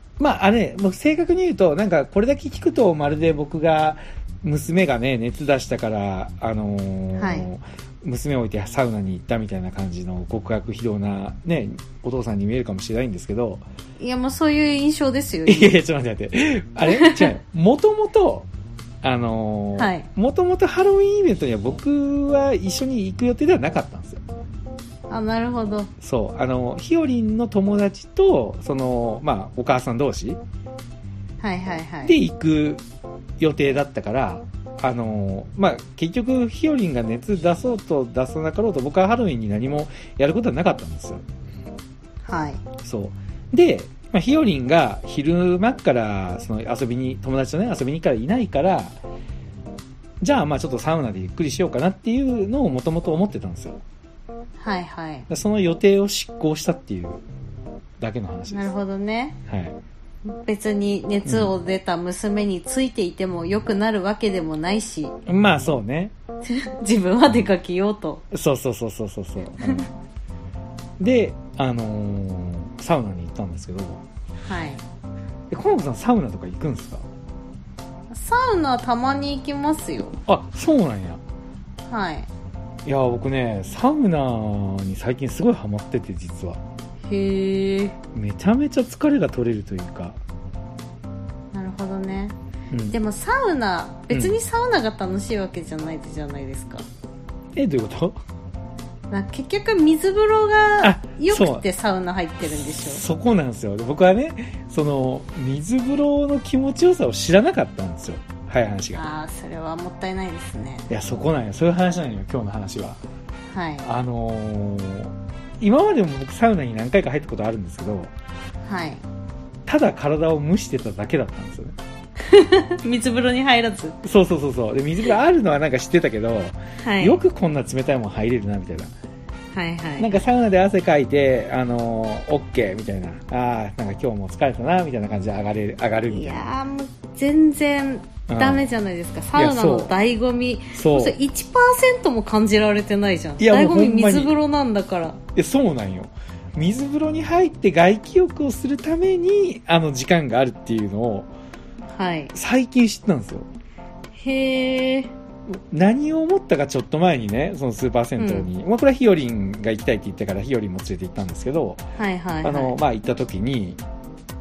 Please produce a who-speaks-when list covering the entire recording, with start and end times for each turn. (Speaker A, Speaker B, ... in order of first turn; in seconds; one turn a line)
Speaker A: 0.2-13.6
Speaker B: 7.2-7.5
Speaker B: 14.0-15.7
Speaker A: 15.5-18.5
Speaker B: 16.9-17.3
Speaker A: 19.0-24.2
Speaker B: 19.8-20.1
Speaker B: 25.1-25.9
Speaker A: 26.0-30.4
Speaker B: 31.4-32.2
Speaker A: 32.0-32.8
Speaker A: 33.4-41.2
Speaker B: 42.3-42.6
Speaker A: 42.8-49.0
Speaker A: 50.2-53.8
Speaker B: 54.6-55.3
Speaker A: 55.3-57.2
Speaker A: 58.0-58.7
Speaker B: 58.5-59.4
Speaker A: 59.5-59.8
Speaker B: 60.3-65.2
Speaker A: 61.3-61.5
Speaker A: 65.3-66.1
Speaker B: 66.5-68.2
Speaker A: 68.3-69.9
Speaker B: 69.6-69.9
Speaker A: 71.0-74.0
Speaker B: 74.5-74.8
Speaker A: 75.5-77.0
Speaker B: 78.1-80.2
Speaker A: 80.3-81.2
Speaker B: 81.9-82.3
Speaker A: 82.8-86.6
Speaker B: 87.1-88.0
Speaker A: 88.1-90.2
Speaker B: 91.5-92.4
Speaker A: 92.7-93.0
Speaker B: 92.9-96.9
Speaker A: 94.1-94.4
Speaker A: 97.5-98.2
Speaker B: 99.1-103.0
Speaker A: 100.8-101.7
Speaker A: 102.5-109.1
Speaker B: 108.9-110.9
Speaker A: 110.9-113.0
Speaker B: 113.5-113.9
Speaker A: 113.8-118.1
Speaker B: 118.7-119.0
Speaker A: 119.7-121.8
Speaker B: 122.2-124.0
Speaker A: 124.0-128.9
Speaker B: 126.8-127.2
Speaker B: 129.5-130.2
Speaker A: 130.0-136.4
Speaker B: 136.1-145.2
Speaker A: 138.3-138.6
Speaker A: 139.3-139.9
Speaker A: 140.8-141.2
Speaker A: 143.4-144.4
Speaker A: 145.3-151.3
Speaker B: 151.9-152.3
Speaker A: 152.3-153.5
Speaker B: 154.2-155.1
Speaker A: 155.5-161.8
Speaker B: 158.2-158.5
Speaker B: 162.0-162.8
Speaker A: 162.4-163.8